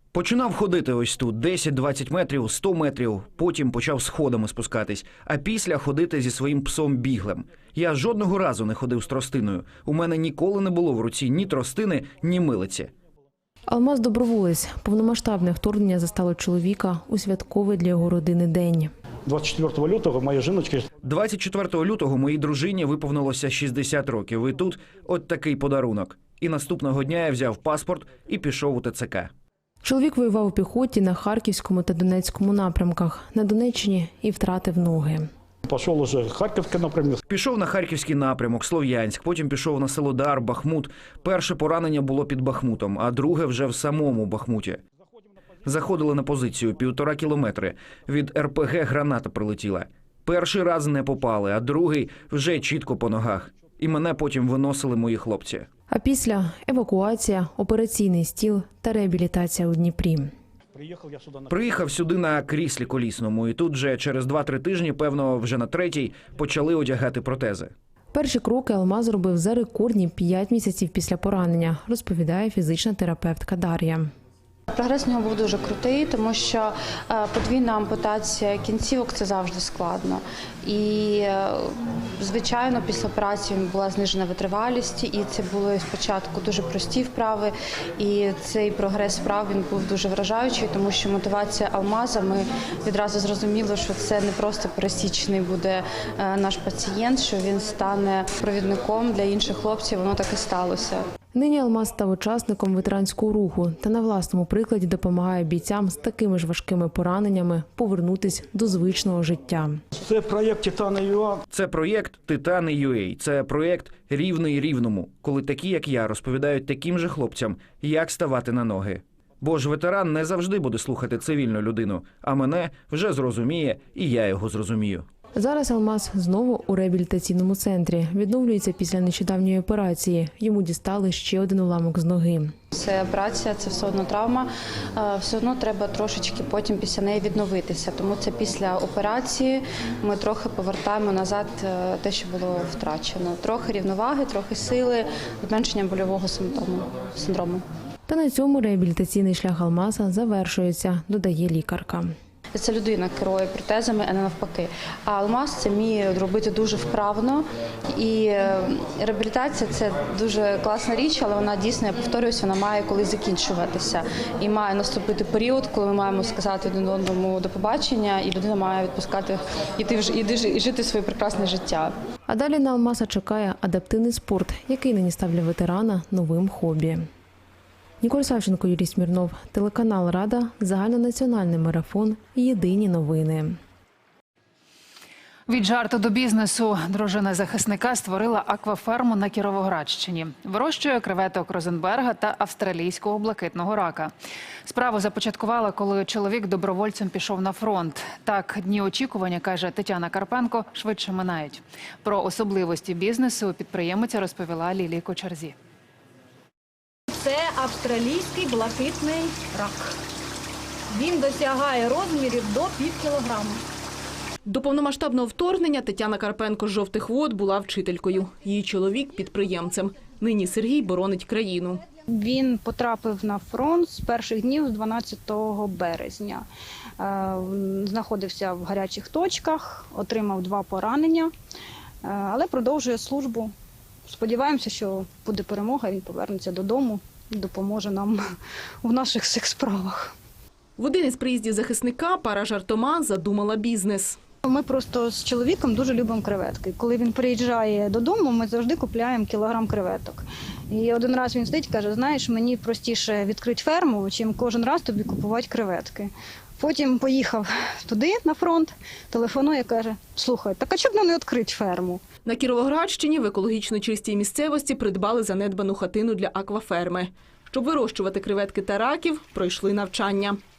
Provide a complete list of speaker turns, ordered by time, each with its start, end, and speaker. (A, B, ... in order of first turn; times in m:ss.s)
0:00.1-0:12.9 A
0:13.7-0:18.9 B
0:19.3-0:20.9 C
0:21.0-0:29.3 A
0:29.8-0:35.3 B
0:35.7-0:37.2 C
0:37.3-0:44.8 A
0:45.6-0:55.7 A
0:55.9-1:00.3 B
1:00.7-1:01.8 C
1:01.5-1:07.7 A
1:08.1-1:14.1 B
1:14.7-1:41.0 D
1:41.3-1:49.8 B
1:50.0-1:51.4 C
1:51.5-2:05.1 A
2:05.4-2:12.5 B
2:12.7-2:27.6 D
2:28.1-2:32.1 B
2:32.5-2:51.9 D
2:52.3-2:57.1 B
2:58.0-3:03.6 B
3:05.5-3:14.1 E
3:14.7-3:25.6 E
3:27.1-3:30.0 F
3:30.9-3:33.6 F
3:34.5-3:41.8 G
3:42.1-3:46.4 F
3:47.0-3:51.3 F
3:52.0-3:53.5 F
3:54.1-3:58.2 F
3:58.8-4:00.1 F
4:00.8-4:04.2 G
4:04.4-4:22.0 F
4:22.2-4:30.4 G